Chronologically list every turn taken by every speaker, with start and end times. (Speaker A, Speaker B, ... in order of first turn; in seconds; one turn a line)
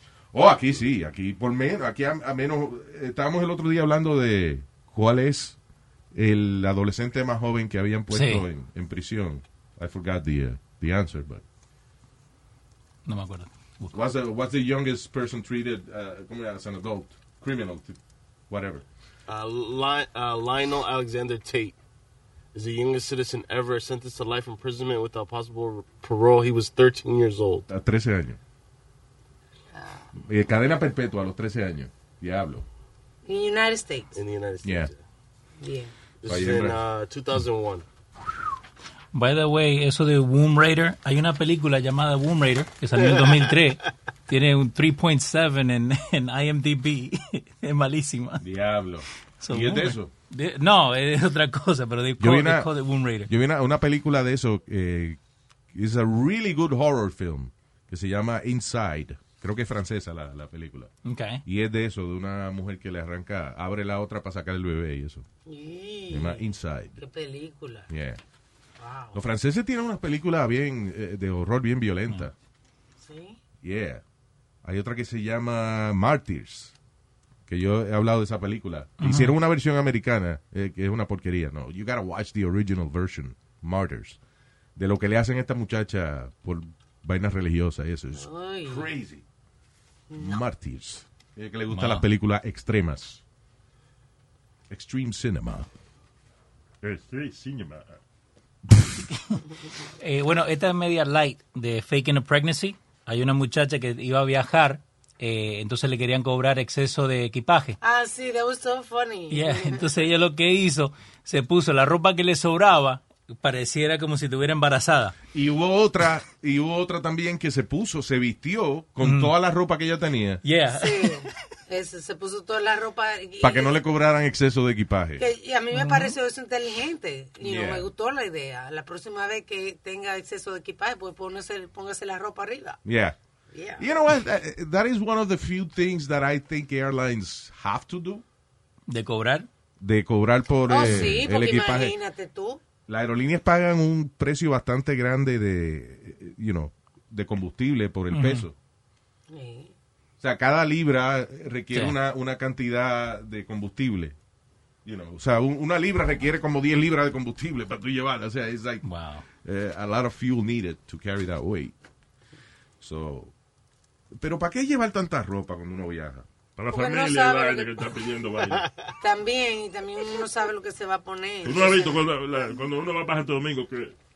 Speaker A: 0.3-5.6
Speaker A: 6.1-11.4
Speaker B: 8.1-8.4
Speaker B: 13.1-14.0
Speaker A: 13.9-18.0
Speaker A: 18.5-18.8
Speaker C: 19.3-21.8
Speaker C: 22.5-27.6
Speaker A: 27.7-28.4
Speaker D: 29.7-30.1
Speaker A: 30.1-32.6
Speaker D: 33.2-34.1
Speaker C: 34.1-35.0
Speaker A: 34.6-34.9
Speaker D: 35.6-35.9
Speaker C: 36.2-37.8
Speaker A: 36.2-36.8
Speaker B: 39.1-48.4
Speaker C: 43.0-43.4
Speaker A: 48.4-50.1
Speaker B: 49.4-53.3
Speaker A: 52.2-52.7
Speaker A: 53.2-55.2
Speaker A: 55.7-60.9
Speaker B: 61.0-61.4
Speaker A: 61.5-65.2
Speaker D: 65.5-66.4
Speaker A: 66.1-67.0
Speaker D: 67.0-67.9
Speaker A: 67.9-68.2
Speaker D: 68.8-69.2
Speaker A: 69.1-72.3
Speaker D: 73.0-73.4
Speaker A: 73.6-74.0
Speaker A: 74.6-76.7
Speaker A: 77.5-84.2
Speaker B: 79.0-79.3
Speaker A: 84.8-89.2
Speaker D: 88.1-88.9
Speaker D: 90.1-90.4
Speaker A: 90.2-93.2
Speaker B: 91.7-92.0
Speaker A: 94.7-95.7
Speaker E: 96.8-98.0
Speaker B: 99.1-99.4
Speaker B: 100.0-107.8
Speaker D: 107.8-109.9
Speaker B: 109.3-115.2
Speaker A: 115.3-120.4
Speaker B: 119.0-119.3
Speaker B: 120.4-121.2
Speaker D: 120.7-123.8
Speaker A: 123.4-125.2
Speaker D: 125.2-132.8
Speaker B: 125.7-126.2
Speaker A: 127.4-127.9
Speaker A: 132.8-133.2
Speaker D: 133.5-133.9
Speaker A: 133.8-138.2
Speaker B: 138.9-139.5
Speaker A: 139.8-141.9
Speaker D: 140.7-142.6
Speaker A: 142.9-148.5
Speaker B: 148.1-148.4
Speaker D: 149.3-149.7
Speaker A: 150.2-154.2
Speaker A: 154.8-158.8
Speaker B: 158.8-159.2
Speaker A: 159.4-161.7
Speaker A: 162.8-163.3
Speaker A: 164.2-166.2
Speaker E: 166.6-168.7
Speaker D: 166.7-167.7
Speaker D: 169.0-172.0
Speaker E: 171.4-173.9